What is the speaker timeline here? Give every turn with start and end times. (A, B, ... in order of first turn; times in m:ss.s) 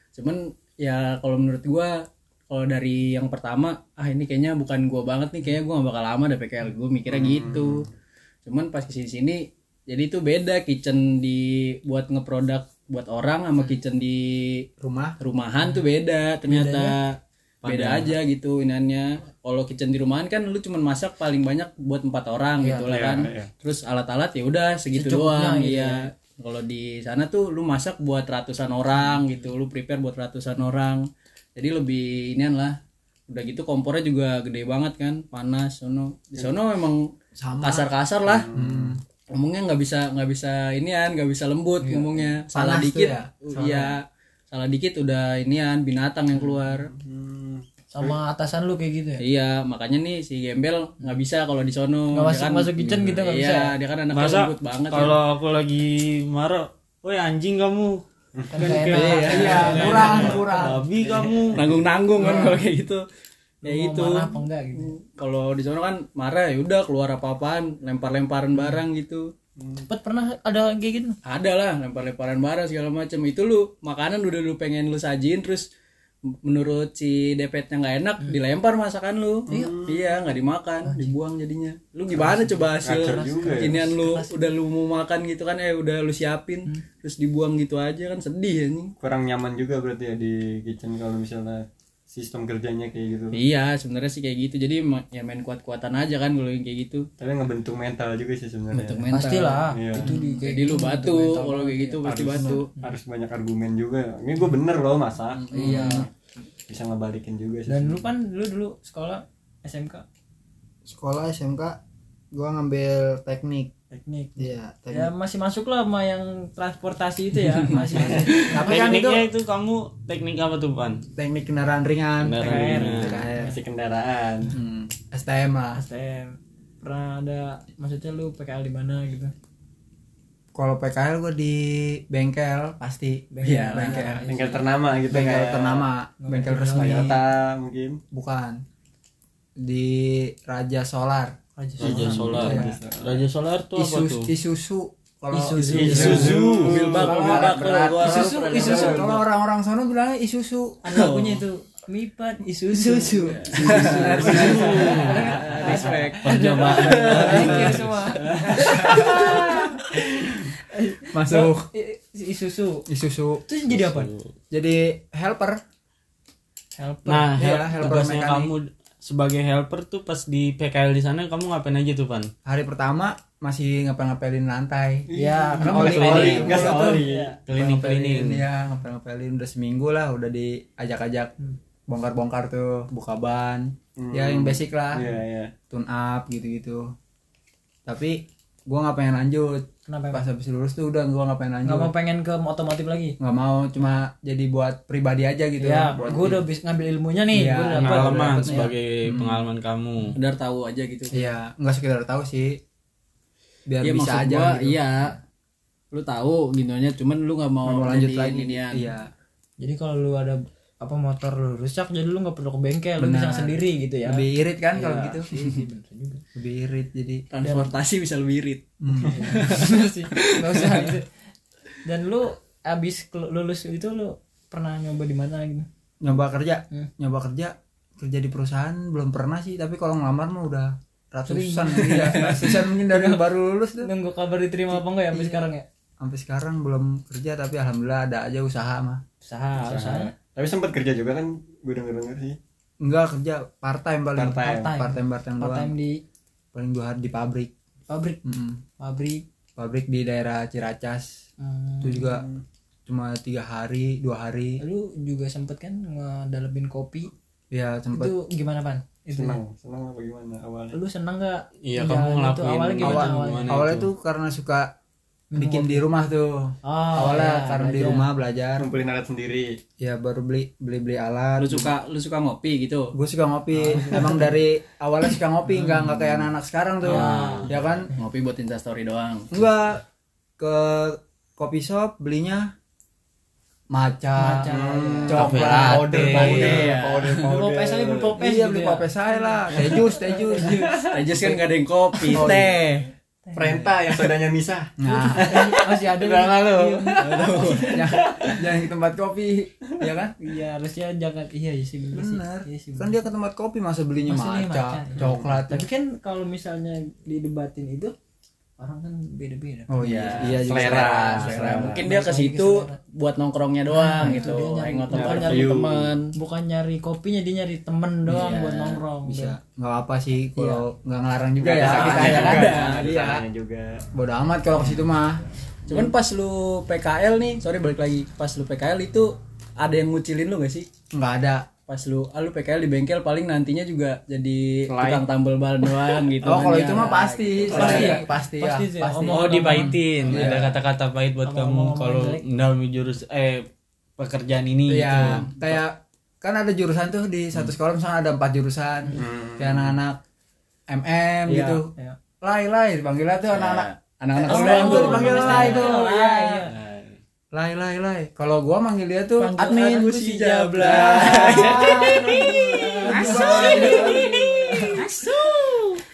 0:00.2-0:02.0 A
0:02.5-0:07.9 A
0:07.1-0:07.9 B
0:08.5-0:14.7 A
0:14.8-0:15.2 C
0:15.2-0:31.0 A
0:16.4-0:17.0 D
0:17.6-0:18.2 E
0:22.8-0:23.5 B
0:24.9-0:26.1 D
0:31.6-0:32.8 A
0:33.3-0:37.0 A
0:37.4-0:37.9 C
0:37.6-0:38.5 A
0:38.2-0:39.0 B
0:38.5-0:39.0 C
0:39.3-0:46.9 A
0:41.8-0:42.3 D
0:42.5-0:44.0 C
0:46.7-0:48.2 B
0:47.9-0:49.2 D
0:49.2-0:55.2 A
0:52.1-0:53.7 D
0:54.1-0:58.0 E
0:58.4-0:58.6 B
0:58.5-1:00.7 D
0:58.5-1:00.0 E
0:58.9-1:00.4 A
0:59.0-1:00.8 C
0:59.6-1:00.5 B
1:00.6-1:01.6 E
1:01.0-1:01.8 B
1:01.6-1:03.0 A
1:02.2-1:02.6 D
1:03.6-1:05.0 D
1:03.6-1:09.3 A
1:08.6-1:08.8 D
1:09.6-1:09.9 B
1:09.9-1:11.2 D
1:11.2-1:15.7 A
1:16.4-1:28.9 A
1:19.5-1:19.8 D
1:19.5-1:20.0 B
1:20.8-1:21.2 D
1:22.1-1:24.4 D
1:22.8-1:23.9 B
1:29.0-1:33.4 B
1:33.3-1:37.1 A
1:37.2-1:39.1 B
1:38.7-1:39.6 A
1:39.1-1:42.0 D
1:39.7-1:40.1 B
1:40.0-1:40.4 C
1:40.4-1:42.7 A
1:42.1-1:46.1 B
1:42.1-1:42.6 C
1:45.4-1:46.0 A
1:45.5-1:46.1 C
1:45.5-1:46.0 D
1:46.7-1:48.0 B
1:47.7-1:50.0 D
1:50.9-1:51.8 C
1:52.3-1:53.7 C
1:53.9-1:59.0 D
1:54.4-1:55.1 C
1:57.7-1:59.3 C
1:57.9-1:58.4 B
1:58.6-2:01.0 E
2:01.2-2:03.6 C
2:02.2-2:03.3 E
2:02.4-2:03.5 D
2:03.2-2:04.5 B
2:04.5-2:05.8 C
2:05.7-2:09.3 D
2:10.5-2:14.3 C
2:13.3-2:14.7 D
2:13.4-2:14.0 A
2:14.2-2:15.9 B
2:15.1-2:17.2 C
2:16.2-2:17.1 D
2:16.7-2:18.0 B
2:18.1-2:18.6 C
2:19.6-2:21.4 C
2:21.6-2:22.1 D
2:21.8-2:23.2 B
2:21.8-2:24.3 E
2:22.3-2:22.8 C
2:23.8-2:30.9 C
2:25.3-2:26.4 D
2:25.7-2:27.2 B
2:25.8-2:27.5 E
2:26.1-2:29.2 A
2:28.0-2:29.2 D
2:30.8-2:39.8 D
2:30.9-2:31.4 A
2:32.7-2:35.0 C
2:33.2-2:37.6 A
2:33.9-2:35.3 E
2:34.2-2:35.0 B
2:36.2-2:38.2 E
2:38.2-2:39.4 B
2:38.5-2:39.5 C
2:40.6-2:42.9 D
2:41.1-2:41.7 C
2:42.9-2:43.4 C
2:43.5-2:44.1 D
2:43.7-2:44.3 E
2:44.5-2:45.6 C
2:46.8-2:48.0 D
2:47.1-2:52.3 E
2:47.4-2:48.5 C
2:52.4-2:55.1 C
2:55.1-2:57.4 D
2:55.1-2:57.4 B
2:55.6-3:01.3 C
2:55.7-2:56.7 E
2:57.4-2:58.4 E
3:01.9-3:05.1 C
3:04.0-3:05.5 B
3:05.7-3:06.9 C
3:07.9-3:11.9 C
3:09.9-3:10.3 D
3:11.6-3:13.2 D
3:13.2-3:16.4 C
3:15.6-3:18.7 D
3:16.0-3:16.2 B
3:17.3-3:19.4 C
3:17.7-3:20.2 E
3:20.2-3:21.2 A
3:21.1-3:22.6 C
3:23.7-3:24.8 C
3:23.8-3:25.2 A
3:25.9-3:28.9 A
3:27.6-3:29.1 C
3:29.6-3:36.2 D
3:33.0-3:35.3 C
3:36.4-3:37.2 C
3:37.3-3:38.6 A
3:37.4-3:37.7 D
3:38.8-3:39.6 C
3:39.1-3:41.2 D
3:39.2-3:40.9 A
3:41.8-3:45.7 D
3:46.0-3:53.9 C
3:51.3-3:53.2 D
3:53.8-3:55.6 D
3:54.7-3:55.4 C
3:56.0-3:59.0 C
3:59.2-4:00.1 D
3:59.6-4:02.4 B
4:02.8-4:05.7 C
4:04.2-4:04.7 B
4:04.4-4:06.0 D
4:06.5-4:07.5 C
4:07.9-4:08.2 D
4:08.2-4:08.6 C
4:08.8-4:09.2 D
4:09.6-4:11.2 C
4:11.4-4:12.0 D
4:11.8-4:12.3 C
4:12.0-4:12.4 B
4:12.9-4:14.6 C
4:14.6-4:17.1 D
4:17.5-4:18.1 C
4:17.9-4:19.4 D
4:19.1-4:20.8 B
4:20.7-4:23.6 D
4:21.6-4:23.9 E
4:22.8-4:24.7 C
4:25.3-4:25.8 D
4:25.4-4:28.7 C
4:26.6-4:28.1 D
4:28.6-4:29.6 B
4:29.8-4:31.7 C
4:31.4-4:32.9 A
4:32.9-4:37.9 C
4:33.5-4:34.3 D
4:36.8-4:37.5 D
4:36.9-4:37.5 E
4:37.9-4:39.3 A
4:39.3-4:39.8 C
4:40.4-4:42.5 C
4:43.7-4:44.5 C
4:44.2-4:45.8 D
4:44.5-4:48.2 B
4:45.1-4:46.4 C
4:45.1-4:46.7 E
4:46.1-4:47.2 A
4:47.2-4:50.9 D
4:48.2-4:50.7 C
4:50.9-4:52.8 A
4:52.0-4:52.6 D
4:52.1-4:52.6 C
4:53.3-4:54.0 D
4:53.4-4:55.5 B
4:54.8-4:55.4 C
4:54.9-4:57.8 D
4:56.0-4:58.4 A
4:57.6-5:00.2 C
5:00.2-5:03.0 D
5:01.9-5:05.7 C
5:04.0-5:08.0 D
5:05.0-5:05.3 B
5:08.6-5:09.7 D
5:09.7-5:11.8 C
5:09.8-5:16.1 A
5:10.4-5:10.8 E
5:10.6-5:11.0 B
5:11.5-5:12.8 D
5:13.7-5:15.6 D
5:14.0-5:14.4 C
5:14.9-5:15.9 B
5:16.1-5:19.4 D
5:18.1-5:18.8 A
5:19.0-5:23.2 C
5:20.4-5:20.6 D
5:21.4-5:23.8 B
5:21.6-5:23.1 A
5:23.9-5:25.3 C
5:25.7-5:30.7 A
5:30.9-5:31.5 C
5:31.7-5:38.0 A
5:36.2-5:40.6 C
5:37.5-5:39.8 D
5:37.5-5:38.0 B
5:39.1-5:45.4 E
5:41.2-5:42.2 D
5:44.7-5:50.0 C
5:49.0-5:49.8 B
5:50.7-5:51.7 C
5:52.2-5:56.4 C
5:53.3-5:55.8 A
5:54.3-5:56.5 D
5:57.3-5:59.9 C
5:59.2-6:04.9 D
5:59.4-6:02.1 A
6:00.6-6:04.2 C
6:02.6-6:04.0 A
6:03.1-6:03.6 E
6:04.6-6:05.6 A
6:04.7-6:05.1 E